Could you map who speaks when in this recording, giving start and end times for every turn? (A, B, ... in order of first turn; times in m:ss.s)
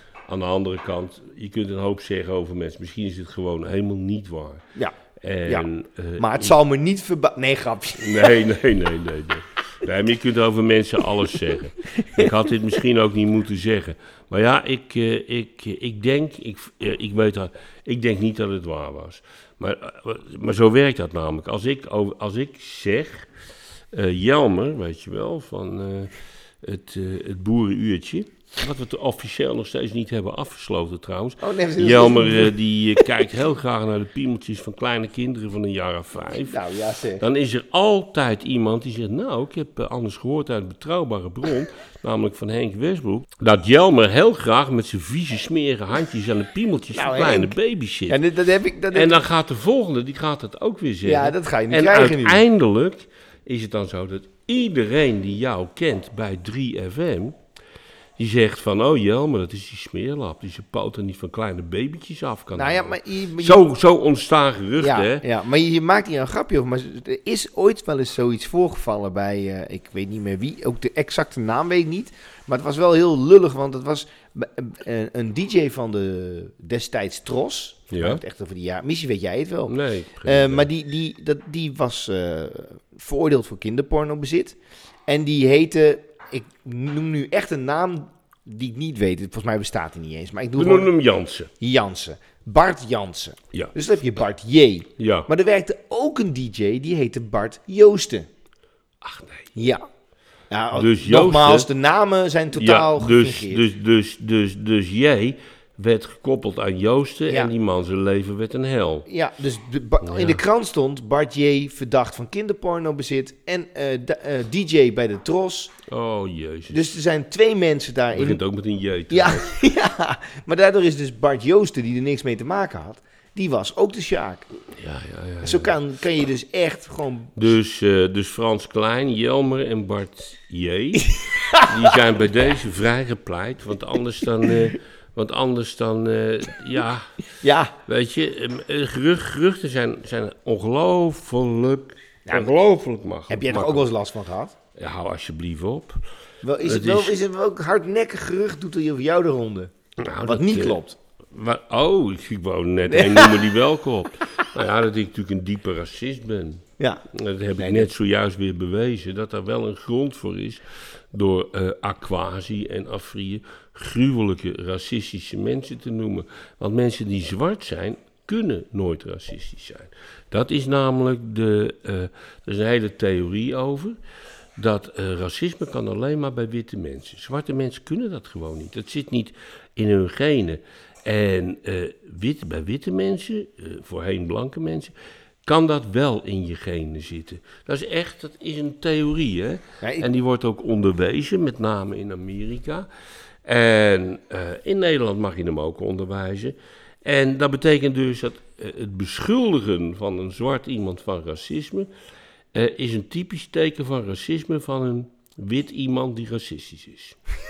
0:00.3-0:04.6 A
0:05.2-0:06.6 A
0:06.2-0:08.4 B
0:08.0-0:23.3 A
0:23.9-0:36.6 A
0:31.4-0:32.6 B
0:36.4-0:37.2 B
0:37.2-0:48.2 A
0:46.9-0:47.6 B
0:48.1-0:49.2 B
0:48.9-0:57.4 A
0:51.0-0:52.4 B
0:58.2-1:05.2 A
1:02.6-1:03.6 B
1:04.8-1:24.6 B
1:17.9-1:18.2 A
1:19.7-1:20.7 A
1:25.1-1:30.9 B
1:30.6-1:31.5 A
1:31.6-1:38.3 B
1:35.0-1:35.3 A
1:39.0-1:39.6 A
1:39.6-1:39.8 B
1:40.5-1:43.7 B
1:40.7-1:41.7 A
1:42.6-1:49.1 A
1:49.1-1:55.7 B
1:50.0-1:50.4 A
1:55.9-1:56.9 A
1:56.7-1:58.4 B
1:58.1-1:59.5 A
1:59.1-2:04.5 B
2:04.8-2:05.8 A
2:05.4-2:07.5 B
2:07.4-2:17.2 A
2:11.2-2:12.0 B
2:17.4-2:17.7 B
2:17.9-2:23.9 A
2:23.3-2:24.6 B
2:24.8-2:26.0 A
2:26.4-2:29.7 B
2:26.6-2:27.2 A
2:30.0-2:54.0 A
2:30.2-2:31.0 B
2:32.9-2:33.5 B
2:36.8-2:37.0 B
2:37.6-2:37.9 B
2:54.6-3:04.9 A
3:05.4-3:12.9 A
3:09.8-3:10.1 B
3:13.4-3:21.9 A
3:22.5-3:27.2 A